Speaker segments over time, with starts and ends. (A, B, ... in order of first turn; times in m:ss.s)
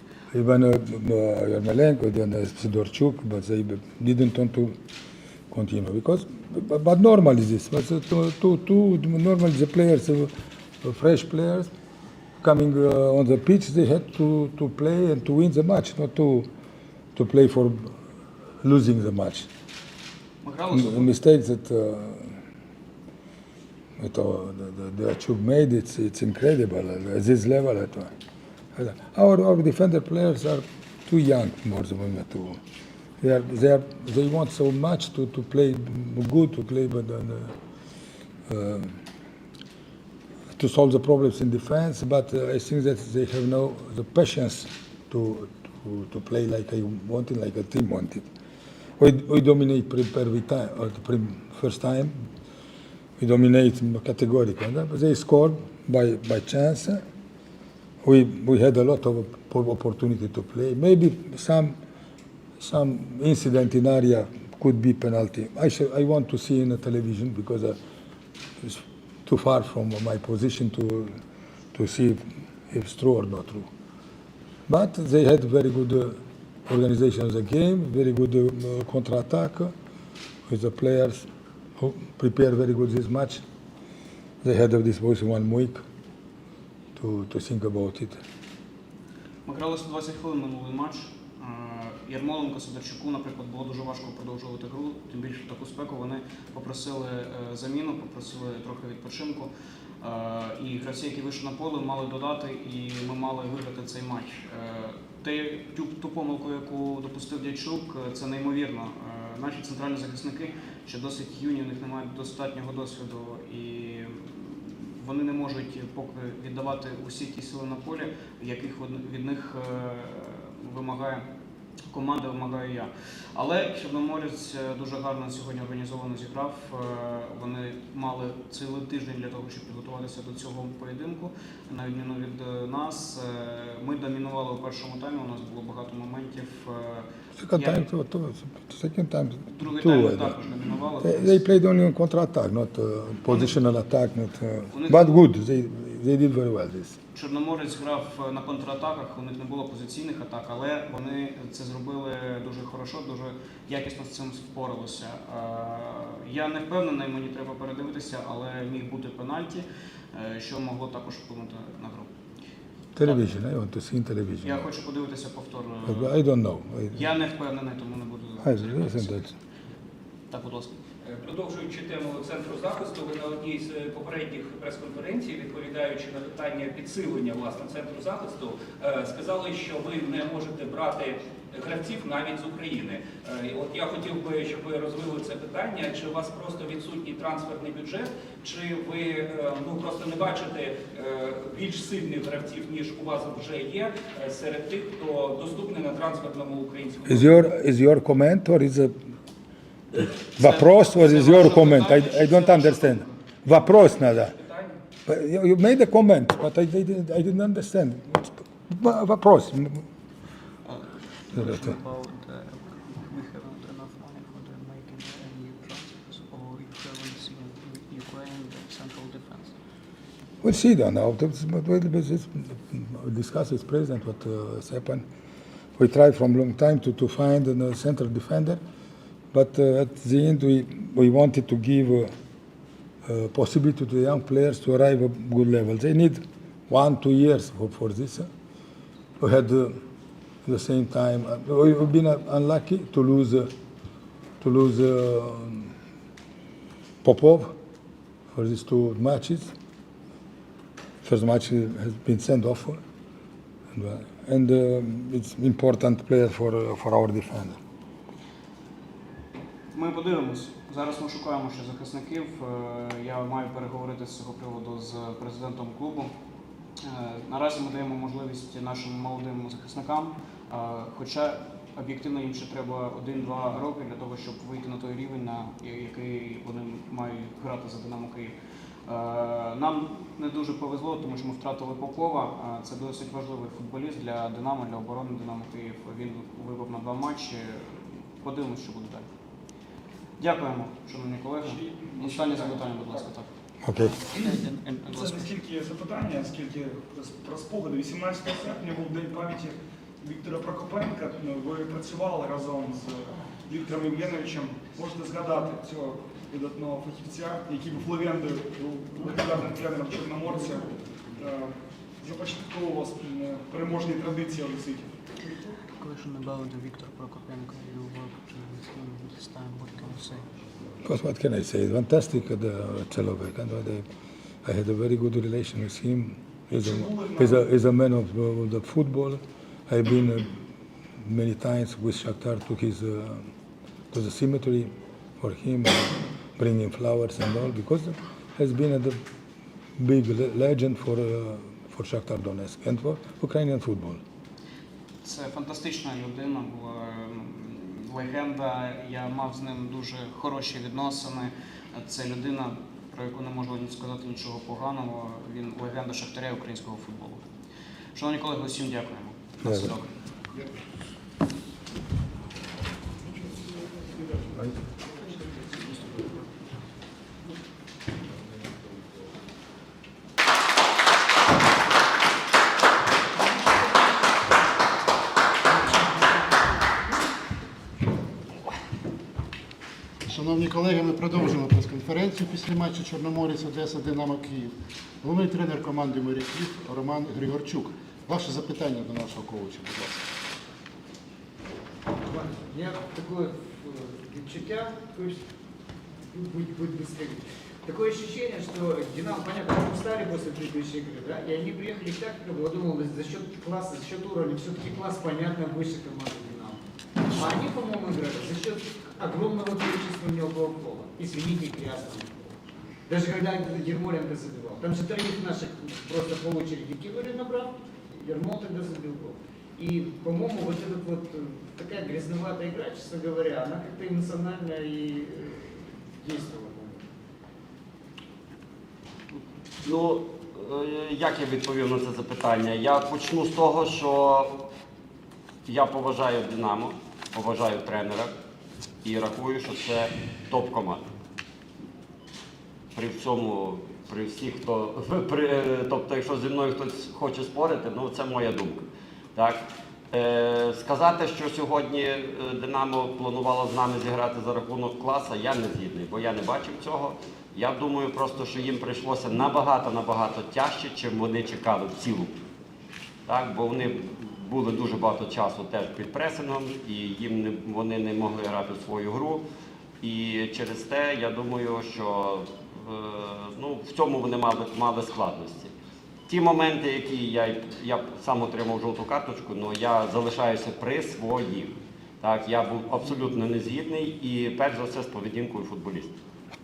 0:00.3-0:04.7 A
0:05.5-0:10.3 A
0:10.8-0:11.7 A
0:12.4-0:16.5 A
0:17.1-0:17.9 A
0:18.6-0:19.5 A
0:20.4-0:21.1 B
0:20.7-0:22.4 A
0:24.0-0:28.1 A
0:28.7-0:32.6 A
0:33.2-0:37.5 A
0:38.5-0:38.9 A
0:40.6-0:48.2 A
0:49.0-0:52.1 A
0:53.2-0:57.0 A
0:58.0-1:01.8 A
1:02.6-1:07.8 A
1:08.6-1:11.1 A
1:11.7-1:13.7 A
1:14.7-1:16.2 A
1:16.7-1:19.7 A
1:20.5-1:21.2 A
1:21.8-1:23.4 A
1:24.4-1:25.8 A
1:27.0-1:28.2 A
1:29.4-1:39.5 B
1:40.0-2:01.2 B
2:01.9-2:17.8 B
2:17.4-2:20.3 A
2:19.5-2:21.4 B
2:21.0-2:27.0 A
2:24.7-2:25.1 B
2:27.1-2:42.1 B
2:42.9-2:44.7 A
2:44.4-2:46.1 B
2:45.8-2:47.0 A
2:46.9-2:49.1 B
2:48.4-2:49.3 A
2:50.3-2:50.7 B
2:51.0-3:17.4 C
3:17.1-3:18.9 A
3:20.0-3:24.3 A
3:20.4-3:23.1 B
3:24.1-3:24.7 C
3:25.0-3:29.8 A
3:30.6-3:39.5 B
3:40.4-3:45.0 A
3:45.8-3:48.6 A
3:49.3-3:52.1 A
3:53.0-3:58.3 A
3:59.2-3:59.8 A
4:00.4-4:03.5 A
4:04.4-4:05.7 A
4:07.0-4:07.5 A
4:08.3-4:09.5 A
4:11.0-4:12.8 A
4:13.7-4:17.6 A
4:19.7-4:26.1 B
4:26.8-4:38.3 B
4:38.8-4:49.0 B
4:50.2-4:55.3 B
4:53.6-4:54.0 A
4:54.9-5:14.9 D
5:15.8-5:20.2 B
5:20.8-5:23.8 A
5:24.4-5:30.3 A
5:26.5-5:27.2 D
5:31.0-5:33.2 A
5:33.9-5:39.0 A
5:39.8-5:44.0 A
5:45.0-5:57.2 B
5:57.9-5:59.9 B
5:59.4-5:59.7 A
6:20.0-6:30.1 E
6:32.1-6:35.2 F
6:36.1-6:46.6 F
6:47.1-6:52.3 F
6:52.9-7:06.8 F
7:09.6-7:14.3 G
7:15.4-7:18.1 G
7:18.8-7:20.9 G
7:22.7-7:42.1 G
7:43.1-7:49.2 G
7:49.8-7:55.5 G
7:56.1-8:05.9 G